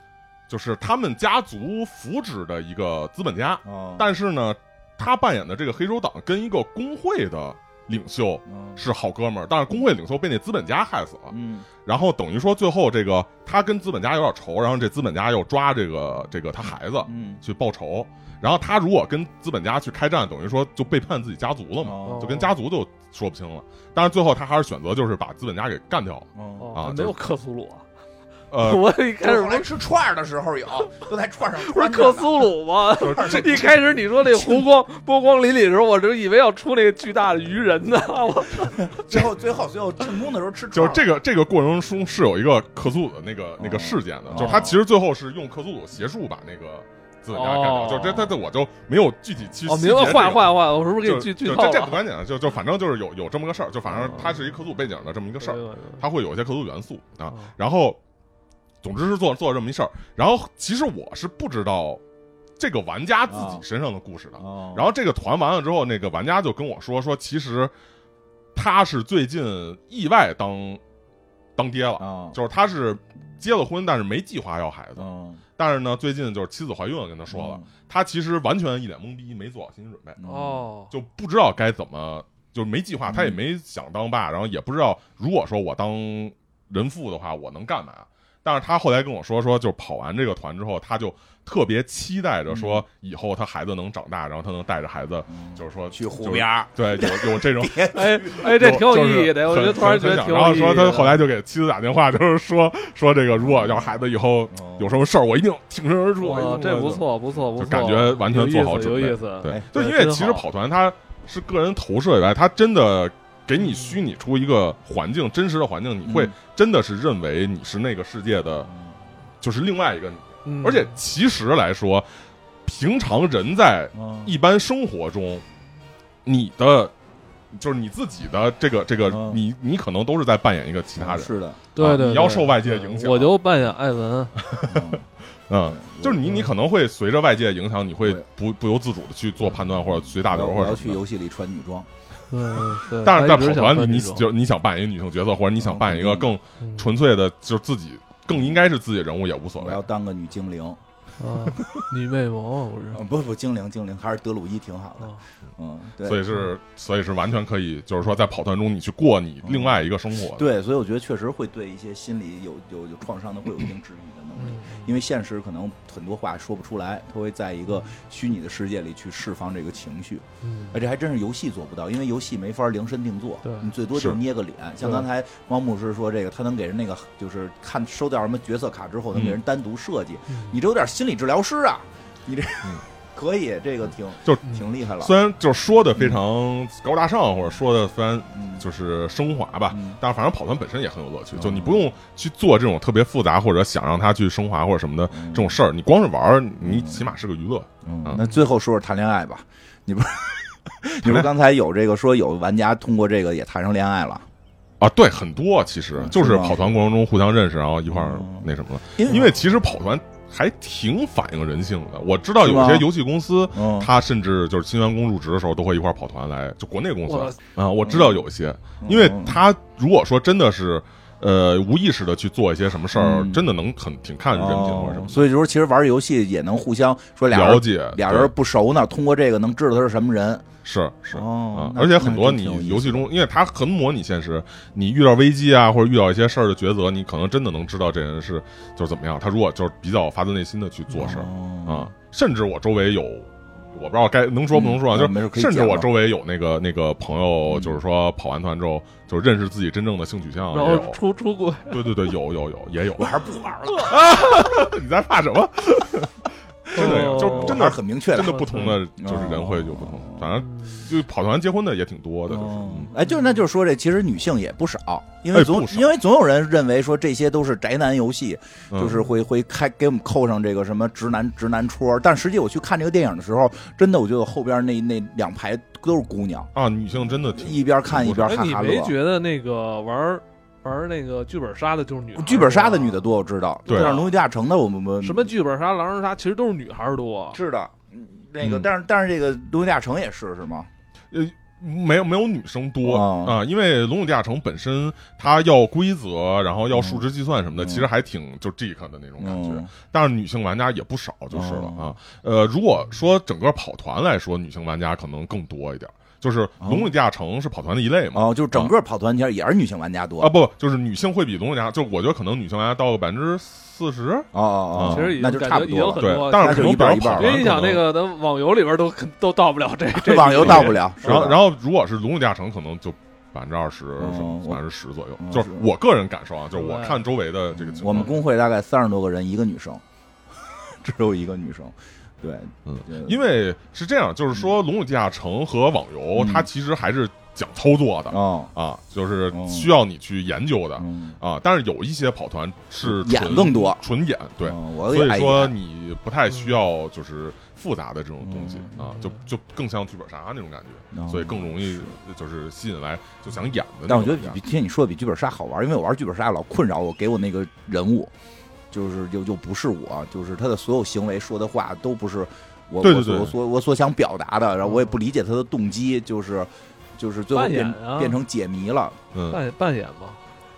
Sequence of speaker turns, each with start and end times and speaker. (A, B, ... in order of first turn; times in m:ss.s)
0:00.5-0:27.2 A
0:03.6-0:04.1 B
0:08.5-0:08.8 B
0:11.3-0:11.7 B
0:17.0-0:17.4 B
0:21.8-0:22.5 B
0:22.0-0:22.5 C
0:26.3-0:26.7 B
0:26.6-0:27.8 C
0:28.5-0:28.8 A
0:28.6-0:29.7 C
0:29.2-0:32.5 B
0:31.6-0:39.0 C
0:33.0-0:33.7 A
0:33.0-0:33.8 B
0:39.0-0:41.0 B
0:40.7-0:58.0 A
0:43.6-0:44.8 B
0:44.4-0:44.7 C
0:47.3-0:48.4 C
0:49.6-0:52.0 C
0:55.4-0:56.0 C
0:58.8-1:02.0 A
1:02.6-1:07.7 A
1:03.3-1:03.6 B
1:04.4-1:04.9 B
1:08.5-1:10.8 A
1:11.6-1:20.2 A
1:12.0-1:12.4 B
1:15.0-1:15.4 B
1:17.3-1:17.6 B
1:20.2-1:20.6 B
1:20.2-1:20.9 C
1:20.9-1:47.0 A
1:23.1-1:23.4 B
1:32.5-1:32.8 B
1:35.3-1:38.4 B
1:37.9-1:41.2 C
1:43.4-1:43.8 B
1:44.5-1:44.9 B
1:46.2-1:50.4 C
1:46.3-1:46.6 B
1:47.6-1:58.7 A
1:53.6-1:54.0 C
1:56.0-1:56.3 B
1:58.6-1:58.9 B
1:59.4-2:02.1 A
2:00.4-2:01.0 C
2:02.6-2:05.4 A
2:03.9-2:04.3 B
2:06.2-2:06.9 A
2:07.5-2:13.4 A
2:09.1-2:09.4 B
2:11.0-2:11.6 B
2:11.8-2:14.3 C
2:14.4-2:21.0 A
2:14.6-2:15.0 B
2:15.7-2:16.5 B
2:20.1-2:21.9 B
2:22.3-2:24.3 C
2:23.0-2:29.8 A
2:25.6-2:26.3 B
2:26.6-2:26.9 C
2:29.6-2:30.8 B
2:31.2-2:33.0 C
2:32.9-2:36.3 B
2:36.0-2:40.5 A
2:39.4-2:39.8 B
2:40.3-3:05.1 B
2:44.4-2:44.9 C
2:50.4-2:50.8 C
2:53.4-2:53.7 C
2:59.1-2:59.4 A
3:00.3-3:00.6 C
3:04.2-3:18.2 A
3:05.9-3:06.2 B
3:08.3-3:08.6 B
3:09.7-3:10.0 B
3:11.3-3:11.8 B
3:15.1-3:15.6 B
3:16.6-3:17.0 B
3:17.8-3:24.3 B
3:21.0-3:21.3 A
3:24.8-3:45.2 A
3:26.0-3:26.7 B
3:27.9-3:29.3 B
3:32.4-3:32.9 B
3:33.5-3:33.9 B
3:37.0-3:37.4 C
3:37.8-3:38.2 B
3:38.8-3:39.4 B
3:42.9-3:43.4 B
3:44.3-3:50.4 B
3:47.3-3:48.3 A
3:50.6-4:11.0 A
3:51.1-3:53.1 B
4:01.0-4:01.9 B
4:04.5-4:05.9 B
4:07.5-4:07.8 B
4:10.5-4:12.0 C
4:11.7-4:13.2 A
4:13.0-4:14.3 B
4:13.7-4:14.0 C
4:13.7-4:22.9 A
4:16.7-4:20.3 B
4:16.7-4:18.8 C
4:20.4-4:20.9 C
4:22.3-4:36.5 B
4:23.0-4:23.3 C
4:25.3-4:25.9 A
4:28.7-4:29.0 A
4:36.5-4:38.4 A
4:37.0-4:38.9 B
4:38.1-4:43.1 C
4:42.2-4:45.3 B
4:43.7-4:44.1 C
4:43.7-4:44.0 A
4:45.0-4:47.4 C
4:47.3-4:50.7 B
4:48.4-4:48.7 A
4:51.1-5:08.7 A
4:52.8-4:53.4 B
4:56.7-4:57.0 B
4:57.6-4:57.9 B
4:59.2-4:59.7 B
5:01.3-5:01.9 B
5:06.6-5:06.9 B
5:08.1-5:10.3 B
5:10.2-5:15.1 A
5:14.3-5:17.5 B
5:14.8-5:20.8 C
5:16.0-5:17.8 A
5:19.9-5:21.4 B
5:20.4-5:28.2 A
5:24.0-5:24.6 B
5:25.2-5:25.7 B
5:26.5-5:27.0 C
5:27.5-5:29.8 B
5:30.4-5:33.2 B
5:32.6-5:54.4 A
5:36.1-5:36.5 B
5:38.1-5:38.5 B
5:39.3-5:39.7 B
5:40.8-5:41.2 B
5:42.8-5:43.8 B
5:44.4-5:45.5 B
5:48.2-5:48.9 B
5:50.9-5:51.9 B
5:53.9-5:58.1 B
5:58.7-6:09.0 B
6:02.8-6:03.3 A
6:04.6-6:05.0 C
6:07.3-6:08.2 C
6:09.3-6:10.2 C